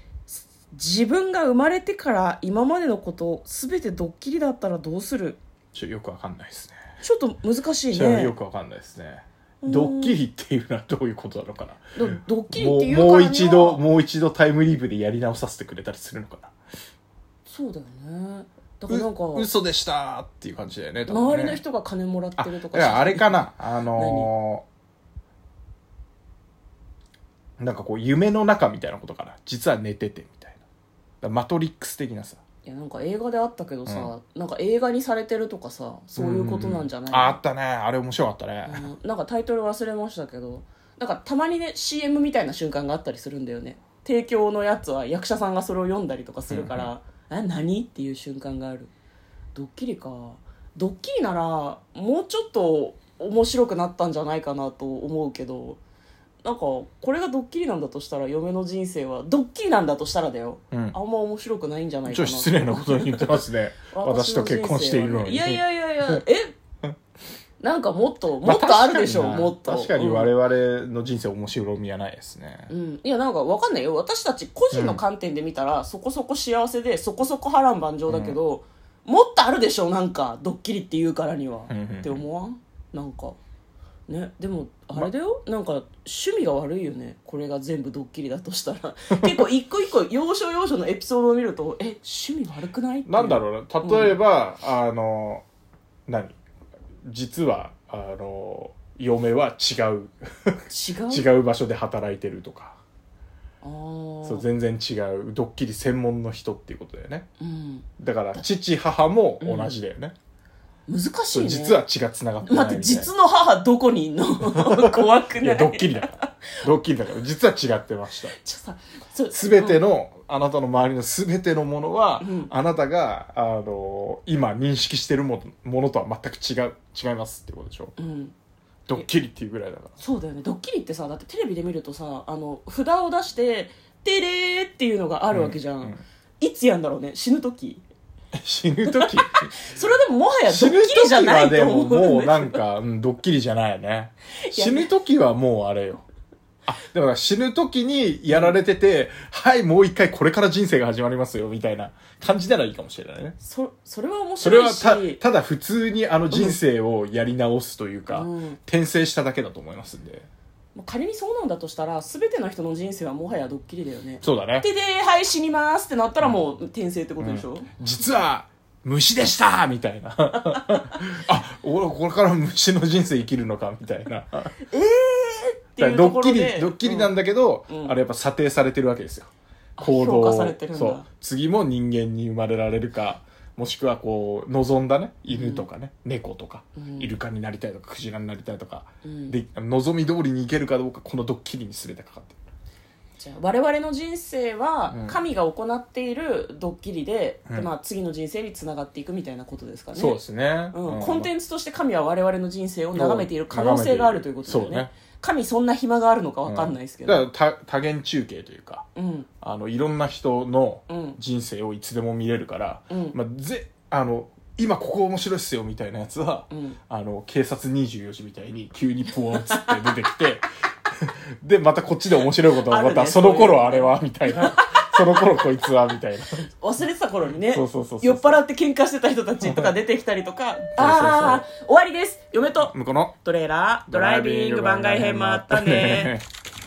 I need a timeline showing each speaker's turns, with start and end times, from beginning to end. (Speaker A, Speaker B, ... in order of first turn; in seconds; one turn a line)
Speaker A: 0.3-5.4
Speaker B: 5.7-6.8
Speaker A: 7.0-8.3
Speaker B: 7.9-11.8
Speaker A: 9.6-10.2
Speaker A: 11.9-13.8
Speaker B: 12.5-16.5
Speaker A: 17.4-19.5
Speaker B: 18.9-21.6
Speaker A: 21.1-24.3
Speaker B: 22.4-24.6
Speaker B: 27.6-30.6
Speaker B: 31.2-32.4
Speaker A: 32.6-37.4
Speaker B: 33.9-34.1
Speaker B: 36.1-38.9
Speaker A: 38.7-48.9
Speaker B: 46.5-46.9
Speaker A: 49.5-55.8
Speaker A: 56.4-66.5
Speaker B: 62.1-66.2
Speaker A: 67.6-70.3
Speaker B: 68.4-72.7
Speaker A: 72.7-83.4
Speaker B: 74.7-75.0
Speaker B: 78.1-78.4
Speaker B: 81.7-82.2
Speaker A: 84.1-94.2
Speaker B: 93.0-95.4
Speaker B: 96.1-96.4
Speaker B: 97.0-102.8
Speaker A: 100.7-101.3
Speaker A: 103.6-104.5
Speaker B: 104.2-107.3
Speaker A: 107.4-107.9
Speaker B: 108.0-110.1
Speaker A: 109.4-109.7
Speaker A: 110.9-111.8
Speaker B: 111.3-113.1
Speaker A: 112.4-116.3
Speaker B: 114.5-118.3
Speaker A: 118.4-119.8
Speaker B: 119.3-127.9
Speaker A: 122.2-122.5
Speaker A: 128.0-128.3
Speaker B: 128.9-130.0
Speaker A: 130.0-137.8
Speaker B: 135.3-136.0
Speaker B: 138.3-139.5
Speaker A: 138.8-142.6
Speaker B: 140.5-146.0
Speaker A: 144.4-144.9
Speaker B: 146.7-153.3
Speaker A: 148.3-148.6
Speaker A: 153.4-155.2
Speaker B: 154.4-160.3
Speaker A: 156.3-156.6
Speaker A: 158.1-158.6
Speaker A: 160.7-167.7
Speaker B: 164.2-164.7
Speaker B: 167.2-174.5
Speaker A: 174.7-177.1
Speaker B: 175.8-192.4
Speaker A: 177.7-177.9
Speaker A: 179.8-181.1
Speaker A: 185.3-185.7
Speaker A: 186.8-187.1
Speaker A: 189.0-189.4
Speaker A: 193.2-200.2
Speaker B: 194.9-195.2
Speaker B: 199.9-201.3
Speaker A: 200.7-207.2
Speaker B: 202.9-204.9
Speaker B: 206.4-208.8
Speaker A: 208.9-209.3
Speaker B: 209.4-226.5
Speaker A: 210.9-211.2
Speaker A: 212.9-213.2
Speaker A: 216.5-216.8
Speaker A: 219.3-219.9
Speaker A: 222.6-225.2
Speaker A: 226.6-236.2
Speaker B: 227.5-228.4
Speaker B: 229.4-229.7
Speaker B: 230.8-231.4
Speaker B: 232.6-233.1
Speaker B: 233.9-236.2